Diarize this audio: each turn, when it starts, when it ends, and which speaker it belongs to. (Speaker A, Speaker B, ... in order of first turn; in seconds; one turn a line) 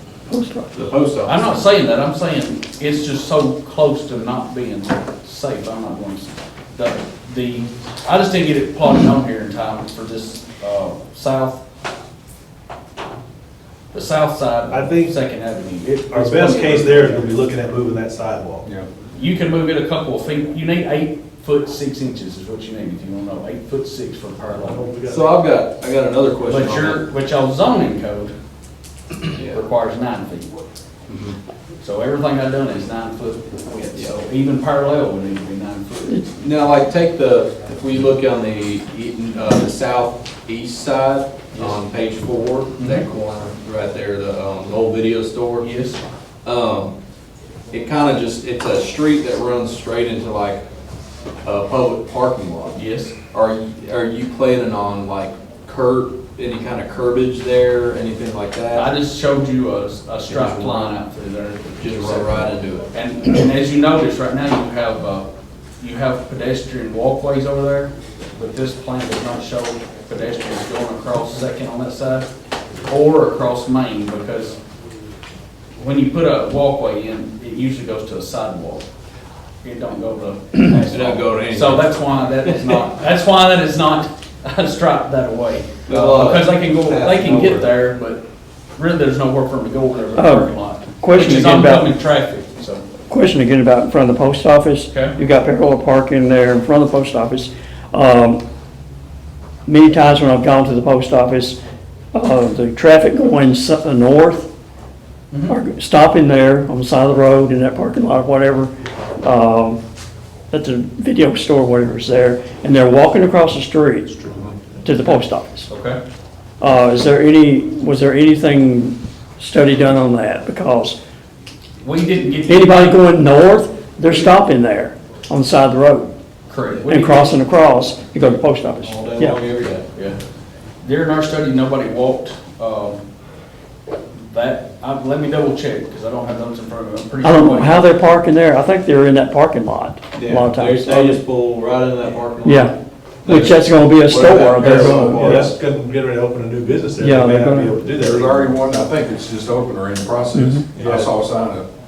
Speaker A: 0.3-0.8
Speaker B: 0.7-1.6
Speaker C: 1.2-11.6
Speaker C: 13.9-17.3
Speaker D: 14.7-15.1
Speaker D: 16.1-18.7
Speaker C: 19.1-24.9
Speaker D: 24.6-25.3
Speaker B: 25.1-27.0
Speaker C: 26.4-28.3
Speaker C: 29.3-30.5
Speaker C: 31.8-36.3
Speaker B: 36.4-45.6
Speaker C: 42.8-43.0
Speaker C: 45.6-46.0
Speaker B: 46.5-47.0
Speaker B: 47.7-50.6
Speaker B: 51.4-52.8
Speaker C: 52.7-53.2
Speaker B: 53.3-58.9
Speaker C: 58.7-65.3
Speaker B: 60.2-61.0
Speaker B: 61.8-62.9
Speaker C: 65.8-72.3
Speaker C: 72.9-74.6
Speaker C: 75.8-78.8
Speaker C: 79.6-88.2
Speaker B: 80.9-81.9
Speaker B: 85.9-87.7
Speaker C: 88.8-92.8
Speaker A: 90.2-90.5
Speaker A: 91.0-91.9
Speaker A: 93.1-98.4
Speaker C: 94.9-95.2
Speaker A: 99.7-101.6
Speaker A: 102.1-104.5
Speaker C: 105.3-105.6
Speaker A: 105.5-109.8
Speaker A: 110.5-114.1
Speaker A: 114.8-115.7
Speaker B: 115.7-116.0
Speaker A: 116.6-121.0
Speaker C: 121.8-123.0
Speaker A: 122.5-126.1
Speaker C: 126.5-127.3
Speaker A: 126.9-129.4
Speaker B: 128.8-129.9
Speaker C: 129.9-130.2
Speaker C: 130.8-133.0
Speaker C: 134.1-137.9
Speaker A: 137.2-141.2
Speaker B: 140.2-142.7
Speaker A: 142.4-142.7
Speaker B: 143.2-145.5
Speaker A: 143.2-145.5
Speaker D: 144.4-148.6
Speaker A: 147.0-147.8
Speaker E: 148.0-151.7
Speaker A: 150.3-150.6
Speaker D: 150.8-151.1